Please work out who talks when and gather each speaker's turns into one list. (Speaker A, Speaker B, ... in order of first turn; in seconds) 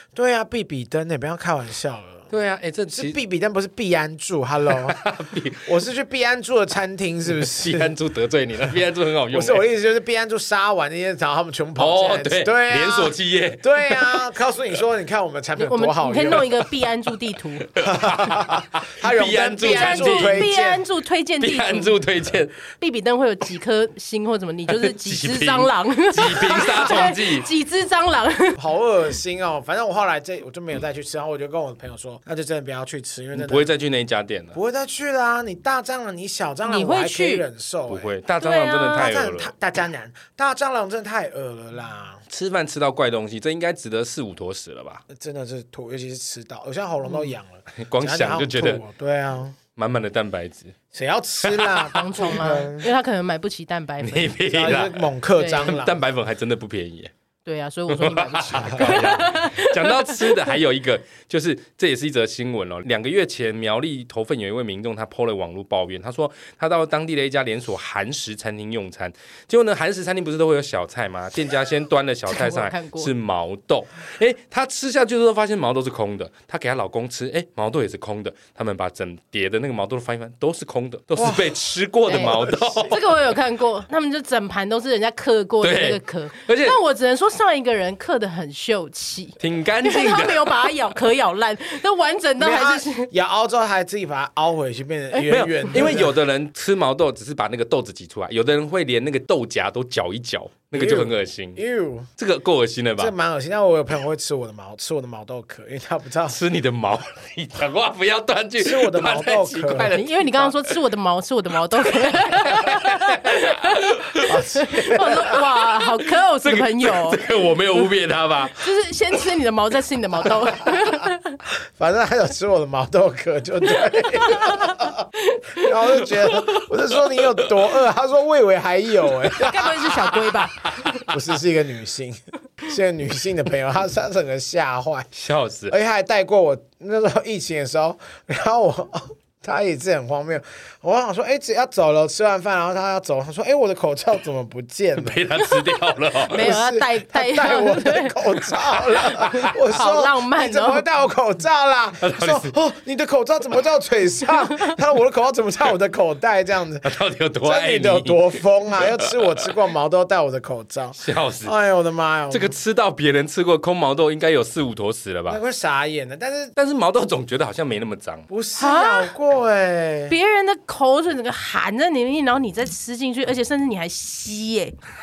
Speaker A: 0.1-2.3, 2.9-5.0, 5.6-7.9, 9.3-16.5, 17.8-20.8, 28.6-33.7, 34.5-38.1, 38.9-42.2, 45.1-49.6, 50.9-52.9, 54.5-56.0, 58.6-59.0, 81.2-82.9, 92.4-96.2, 100.7-102.1, 103.0-106.4, 108.6-109.9, 114.2-115.4, 121.8-130.1, 131.0-135.1, 135.7-145.2, 146.3-162.6, 165.3-166.5, 168.3-170.1
Speaker B: 2.3-3.2, 4.7-5.7, 7.4-9.6, 11.8-14.3, 16.3-16.6, 17.6-20.5, 21.4-22.6, 24.7-27.5, 33.3-34.6, 37.9-39.5, 42.3-45.0, 47.8-48.8, 49.8-50.8, 51.4-51.9, 54.0-57.1, 57.9-83.0, 85.6-86.8, 89.4-90.8, 95.2-101.6, 102.2-103.1, 106.3-110.8, 112.0-114.4, 114.9-118.6, 126.4-127.6, 130.2-130.7, 135.1-135.7, 145.0-146.5, 152.0-152.5, 156.8-159.3, 161.0-161.5, 162.3-165.4, 166.6-168.3
Speaker C: 15.6-17.7, 19.6-22.0, 22.8-28.6, 36.6-37.4, 38.4-39.1, 47.0-47.3, 51.9-54.3, 55.4-55.8, 57.5-60.4, 72.3-73.1, 82.1-93.1, 95.1-95.9, 109.9-117.2, 118.5-121.4, 123.8-126.0, 129.3-131.0, 145.4-150.8, 168.6-169.1, 170.1-174.8